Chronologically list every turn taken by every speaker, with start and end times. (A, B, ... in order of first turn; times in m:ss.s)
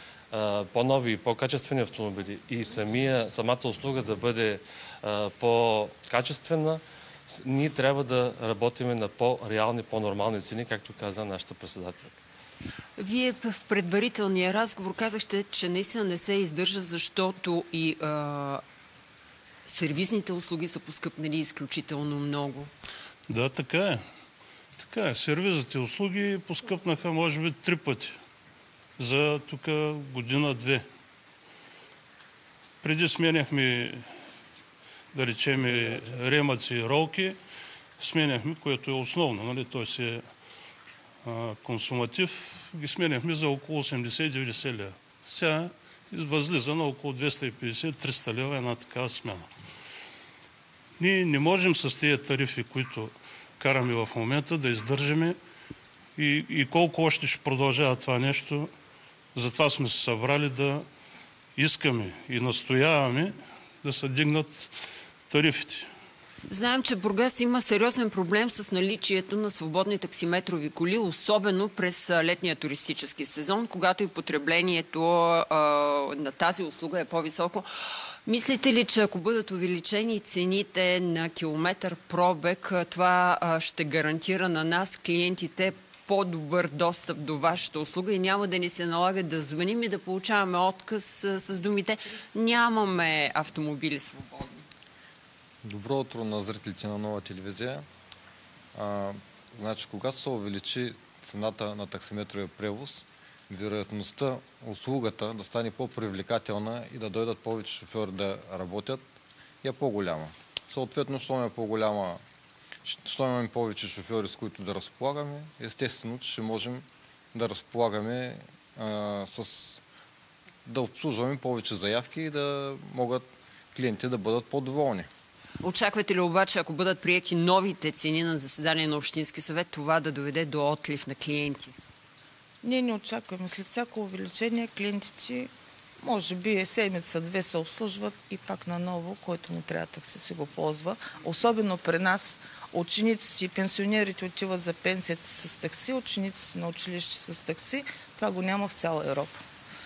0:00.3-0:12.2 A
0:13.0-0:18.6 B
0:19.7-0:22.7 B
0:23.3-0:24.1 C
0:24.8-0:28.2 C
0:29.0-0:30.9 C
0:32.8-0:34.1 C
0:35.1-0:37.4 C
0:38.0-0:40.3 C
0:41.2-0:49.5 C
0:51.0-0:55.4 C
0:56.2-0:58.7 C
0:59.4-1:00.9 C
1:01.6-1:04.7 C
1:05.3-1:05.9 C
1:06.5-1:17.7 B
1:18.3-1:34.6 B
1:35.6-1:37.9 D
1:38.8-1:49.0 D
1:49.6-1:52.2 D
1:52.8-1:59.8 D
2:00.7-2:05.1 D
2:05.6-2:11.8 B
2:12.6-2:29.4 E